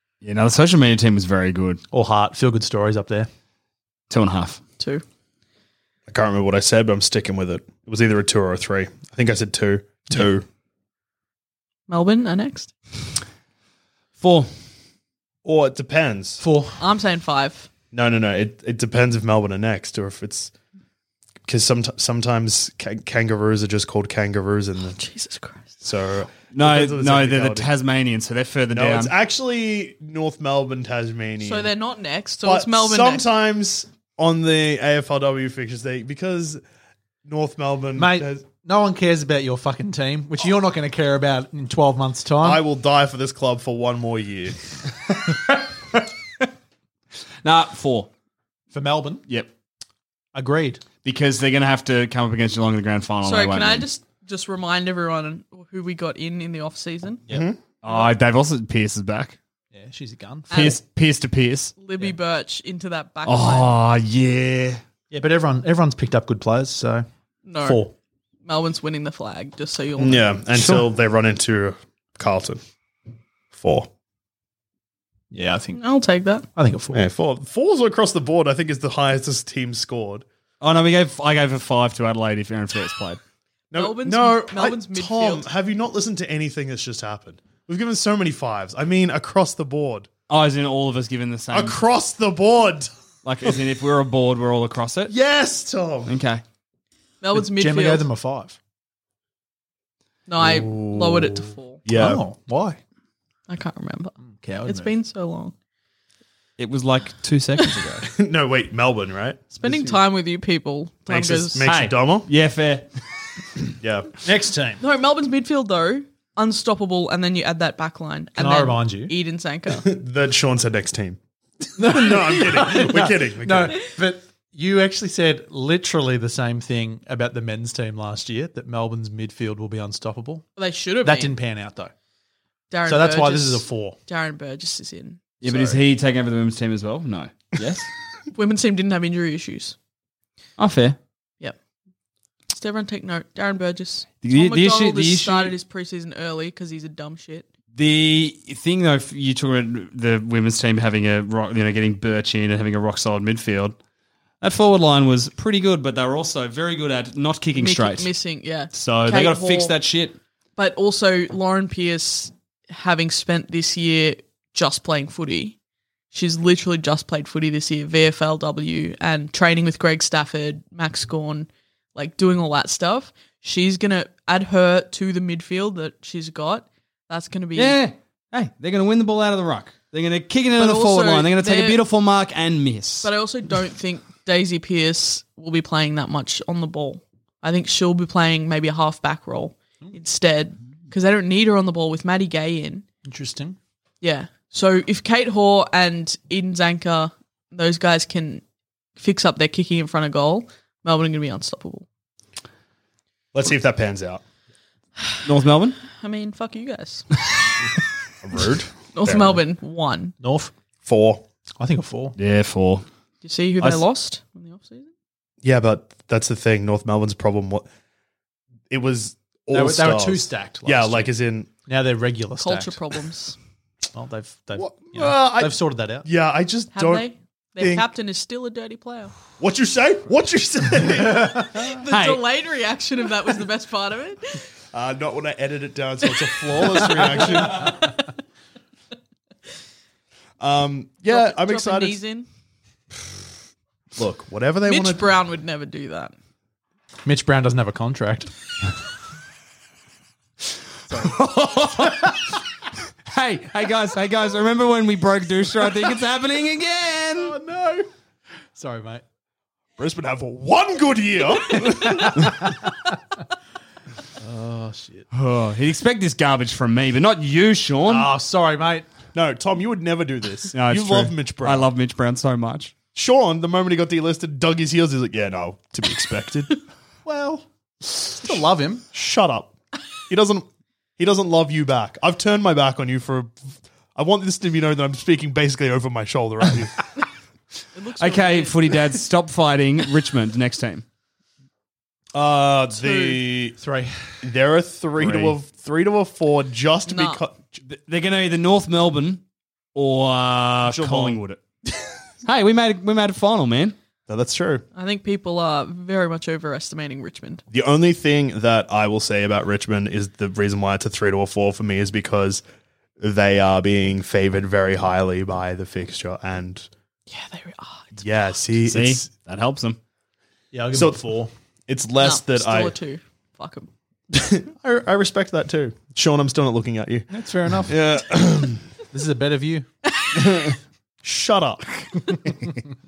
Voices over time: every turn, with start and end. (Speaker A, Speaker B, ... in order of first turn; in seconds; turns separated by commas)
Speaker A: 0.2-1.8, Speaker B: 1.9-3.3, Speaker A: 4.1-4.6, Speaker C: 6.1-10.4, Speaker D: 11.9-12.7, Speaker A: 14.2-14.5, Speaker C: 15.4-16.4, Speaker B: 16.4-16.8, Speaker D: 16.8-17.7, Speaker C: 17.9-20.5, Speaker C: 21.5-25.0, Speaker D: 24.8-25.7, Speaker C: 25.8-27.7, Speaker A: 26.5-29.1, Speaker C: 28.7-31.7, Speaker D: 31.4-33.3, Speaker C: 32.4-36.6, Speaker C: 37.3-38.4, Speaker B: 38.0-42.6, Speaker C: 42.4-44.6, Speaker A: 45.1-46.0, Speaker A: 47.4-48.1, Speaker B: 48.7-49.2, Speaker B: 50.3-50.8, Speaker A: 51.0-53.9, Speaker D: 53.2-57.2, Speaker C: 57.3-57.6, Speaker A: 57.8-59.4, Speaker B: 59.7-60.7, Speaker D: 60.5-60.8, Speaker A: 60.5-61.7, Speaker D: 61.8-63.8, Speaker A: 63.3-64.8, Speaker B: 65.1-67.1, Speaker D: 67.5-67.9, Speaker B: 67.6-68.0, Speaker D: 68.5-70.3, Speaker C: 70.0-72.6, Speaker B: 70.5-70.9, Speaker C: 73.5-73.9, Speaker B: 75.3-75.8, Speaker D: 75.7-76.5, Speaker B: 76.5-77.1, Speaker C: 76.9-80.2, Speaker A: 80.6-83.2, Speaker C: 83.7-90.1, Speaker D: 83.7-85.5, Speaker A: 90.3-91.8, Speaker C: 91.5-92.9, Speaker A: 93.2-95.1, Speaker C: 95.1-96.1, Speaker A: 96.1-96.4, Speaker D: 97.2-98.1, Speaker B: 97.3-98.6, Speaker D: 100.3-101.8, Speaker C: 100.4-102.2, Speaker B: 101.9-102.8, Speaker D: 103.5-104.1, Speaker B: 104.3-104.9, Speaker D: 104.7-105.5, Speaker A: 106.6-108.1, Speaker C: 108.1-109.5, Speaker D: 109.5-111.7, Speaker B: 109.6-110.0, Speaker C: 111.1-112.3, Speaker A: 111.6-112.9, Speaker C: 113.8-114.2, Speaker B: 114.2-114.8, Speaker D: 114.8-119.9, Speaker B: 118.3-119.1, Speaker C: 119.8-121.2, Speaker C: 121.8-123.9, Speaker B: 121.8-130.5, Speaker D: 130.6-131.4, Speaker B: 131.0-131.9, Speaker D: 132.7-135.2, Speaker B: 132.9-134.0, Speaker A: 135.4-137.9, Speaker C: 135.4-135.8, Speaker D: 138.3-139.8, Speaker A: 140.6-141.0, Speaker D: 142.5-147.5, Speaker A: 144.2-145.6, Speaker A: 147.8-153.8, Speaker A: 154.4-158.1, Speaker D: 157.6-159.8, Speaker A: 158.7-160.2, Speaker D: 160.6-165.6, Speaker D: 166.1-177.8, Speaker A: 177.6-183.1, Speaker D: 180.6-181.8, Speaker D: 183.0-192.8, Speaker B: 193.0-193.6, Speaker D: 194.0-198.4, Speaker D: 199.0-201.9, Speaker C: 203.3-204.2, Speaker A: 205.2-205.8, Speaker D: 205.9-207.1, Speaker C: 208.2-209.4, Speaker D: 208.9-210.2, Speaker B: 210.2-210.5, Speaker C: 210.8-211.2, Speaker B: 211.6-212.2, Speaker A: 212.2-212.8, Speaker D: 213.2-214.9, Speaker C: 215.4-217.7, Speaker C: 218.7-221.5, Speaker B: 219.5-221.1, Speaker B: 221.7-222.8, Speaker D: 222.4-223.4, Speaker B: 223.9-226.1, Speaker C: 224.6-227.1, Speaker D: 226.7-229.1, Speaker C: 227.6-227.9, Speaker C: 229.4-231.7, Speaker D: 231.5-234.4, Speaker A: 231.9-232.2, Speaker C: 234.7-238.0, Speaker D: 236.8-237.7, Speaker C: 240.4-242.0, Speaker D: 241.1-242.3, Speaker C: 244.0-245.1, Speaker D: 244.7-246.1, Speaker B: 247.0-248.3, Speaker B: 250.9-251.2, Speaker A: 250.9-252.4, Speaker B: 251.8-252.1, Speaker A: 253.1-257.4, Speaker B: 257.1-257.9, Speaker B: 258.5-259.0, Speaker C: 259.8-262.6, Speaker B: 261.7-262.7, Speaker B: 264.2-265.1, Speaker A: 265.1-268.1, Speaker B: 267.9-268.9, Speaker C: 269.1-271.7, Speaker A: 270.5-272.7, Speaker C: 272.9-276.6, Speaker B: 277.1-278.9, Speaker C: 278.9-280.5, Speaker C: 281.0-286.9, Speaker D: 287.7-288.8, Speaker A: 288.0-290.9, Speaker C: 292.1-293.6, Speaker D: 292.7-293.2, Speaker B: 293.6-294.2, Speaker C: 294.2-297.6, Speaker A: 295.0-295.4, Speaker D: 296.9-297.2, Speaker A: 297.6-299.2, Speaker A: 299.8-301.4, Speaker C: 300.7-301.2, Speaker A: 302.2-303.8, Speaker C: 304.1-304.6, Speaker D: 304.7-307.4, Speaker C: 307.5-312.4, Speaker C: 313.0-316.7, Speaker D: 317.1-318.0, Speaker C: 318.0-319.1, Speaker A: 318.7-319.8, Speaker B: 320.5-321.3, Speaker C: 320.7-321.0, Speaker C: 321.7-322.8, Speaker D: 322.0-323.7, Speaker C: 324.1-327.1, Speaker B: 327.1-327.8, Speaker C: 327.6-328.7, Speaker B: 328.9-329.7, Speaker D: 330.0-330.4, Speaker C: 331.0-332.4